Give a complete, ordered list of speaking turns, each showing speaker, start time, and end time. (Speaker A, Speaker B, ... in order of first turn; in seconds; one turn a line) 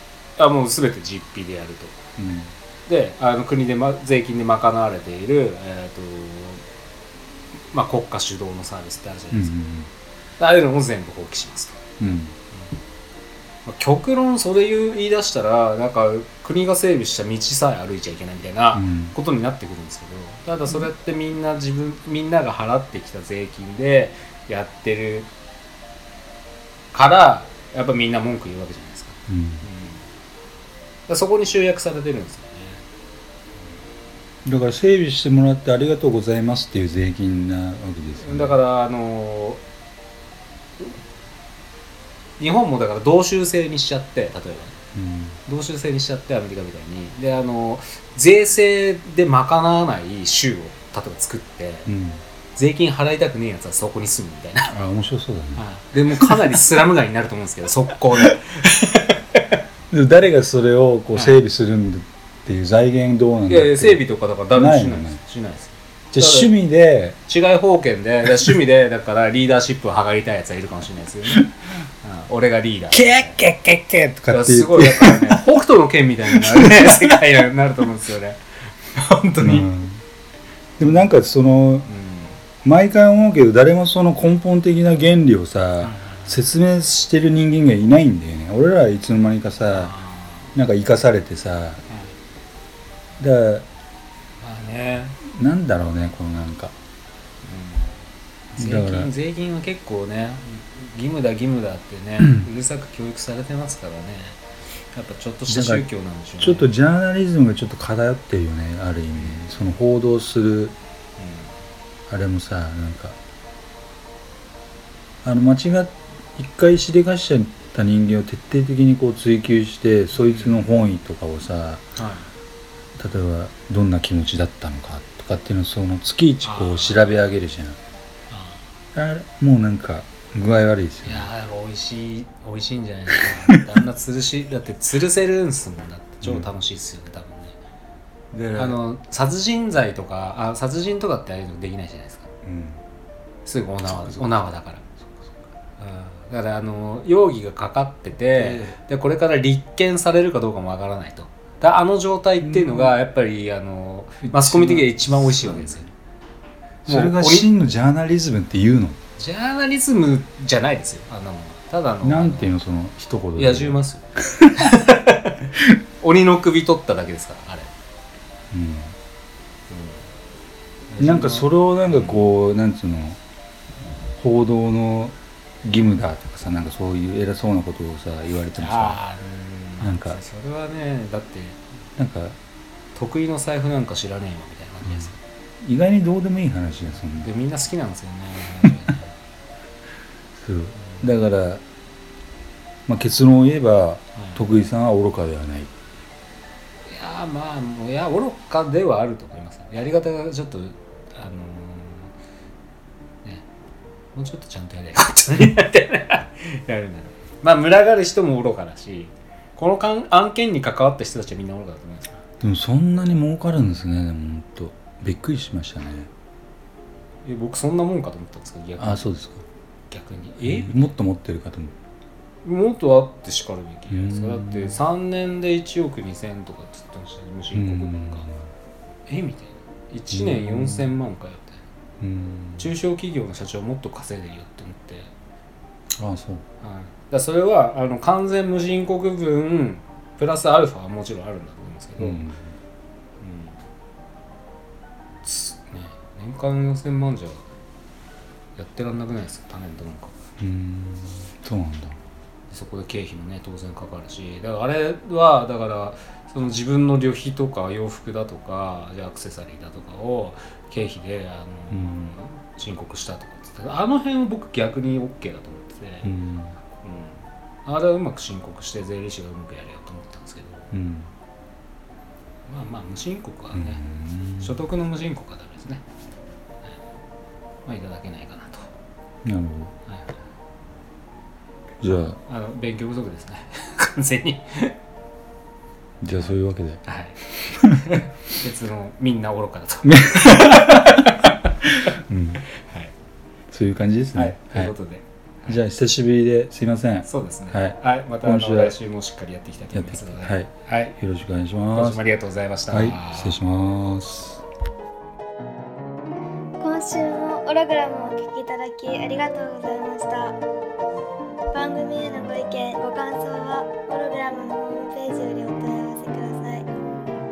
Speaker A: 0.4-2.0
Speaker B: 2.2-2.5
Speaker A: 2.9-6.6
Speaker A: 7.7-9.5
Speaker B: 9.3-9.9
Speaker A: 10.4-11.8
Speaker B: 12.0-12.3
Speaker A: 13.7-25.3
Speaker B: 18.7-19.2
Speaker A: 26.9-30.0
Speaker B: 29.3-29.6
Speaker A: 31.1-32.8
Speaker B: 34.5-38.6
Speaker A: 38.2-39.6
Speaker A: 42.4-44.8
Speaker B: 45.0-45.4
Speaker A: 45.5-51.9
Speaker B: 51.9-52.2
Speaker A: 52.6-54.7
Speaker B: 54.7-56.6
Speaker A: 55.6-59.4
Speaker B: 59.9-65.2
Speaker A: 61.1-61.4
Speaker A: 63.5-66.5
Speaker B: 66.1-67.2
Speaker A: 67.3-71.5
Speaker A: 72.0-73.4
Speaker B: 72.9-75.4
Speaker A: 74.3-79.7
Speaker B: 76.4-77.2
Speaker B: 79.4-80.0
Speaker B: 80.8-81.9
Speaker A: 81.9-82.4
Speaker B: 82.6-90.0
Speaker A: 85.8-86.4
Speaker A: 89.7-90.5
Speaker B: 90.5-91.8
Speaker A: 91.9-92.2
Speaker B: 93.2-93.7
Speaker A: 94.4-95.2
Speaker B: 95.2-96.7
Speaker A: 97.4-98.0
Speaker A: 98.5-104.4
Speaker B: 98.6-99.1
Speaker B: 102.2-102.5
Speaker A: 104.9-106.7
Speaker B: 105.5-105.9
Speaker B: 106.4-110.8
Speaker A: 109.2-109.5
Speaker A: 111.2-111.6
Speaker B: 112.1-113.2
Speaker B: 115.2-121.8
Speaker A: 120.3-120.8
Speaker A: 122.0-122.3
Speaker B: 123.0-127.8
Speaker A: 126.4-127.2
Speaker A: 128.3-128.7
Speaker B: 128.9-131.3
Speaker A: 131.0-137.6
Speaker B: 136.2-136.5
Speaker B: 138.3-138.8
Speaker A: 138.6-142.3
Speaker B: 142.4-142.8
Speaker A: 143.4-144.8
Speaker B: 143.8-144.5
Speaker A: 145.8-155.9
Speaker B: 148.3-148.8
Speaker B: 152.4-153.0
Speaker B: 154.2-155.9
Speaker B: 156.8-159.0
Speaker A: 156.9-157.5
Speaker A: 159.2-162.6
Speaker B: 162.0-163.8
Speaker A: 163.4-167.7
Speaker B: 168.5-168.9
Speaker A: 169.7-170.1
Speaker A: 170.9-172.2
Speaker B: 171.0-173.2
Speaker B: 174.2-179.0
Speaker A: 178.6-181.6
Speaker B: 179.8-180.2
Speaker B: 182.0-182.4
Speaker A: 182.9-185.2
Speaker B: 184.8-187.3
Speaker A: 187.2-189.1
Speaker B: 190.4-191.6
Speaker A: 190.8-191.1
Speaker B: 192.9-195.7
Speaker A: 194.2-194.4
Speaker A: 196.9-202.1
Speaker A: 204.2-212.2
Speaker B: 212.4-216.1
Speaker A: 217.2-219.1
Speaker B: 218.8-219.4
Speaker A: 219.9-220.9
Speaker B: 220.4-221.7
Speaker A: 222.4-228.3
Speaker B: 223.9-224.8
Speaker B: 227.5-228.4
Speaker A: 229.1-231.6
Speaker B: 230.1-230.9
Speaker B: 232.0-232.7
Speaker A: 232.6-235.1
Speaker B: 236.0-236.4
Speaker A: 236.6-242.2
Speaker B: 242.0-242.5
Speaker A: 243.2-243.6
Speaker A: 245.2-247.4
Speaker A: 248.6-250.1
Speaker B: 250.4-252.0
Speaker A: 252.5-266.1
Speaker B: 261.7-262.1
Speaker B: 266.0-266.6
Speaker A: 266.8-270.7
Speaker B: 270.7-271.1
Speaker A: 272.5-273.8
Speaker B: 273.5-274.6
Speaker A: 274.4-275.8
Speaker A: 277.7-278.7
Speaker B: 279.2-279.7
Speaker A: 279.9-280.1
Speaker B: 281.8-282.2
Speaker A: 281.9-284.8
Speaker B: 286.0-287.9
Speaker A: 286.1-291.5
Speaker B: 289.8-291.1
Speaker B: 291.6-292.4
Speaker A: 292.5-292.9
Speaker B: 293.5-294.7
Speaker A: 294.1-295.6
Speaker B: 295.5-298.8
Speaker A: 297.0-300.9
Speaker B: 299.7-302.0
Speaker A: 301.7-303.4
Speaker B: 302.7-304.4
Speaker C: 306.6-310.4
Speaker C: 311.5-316.7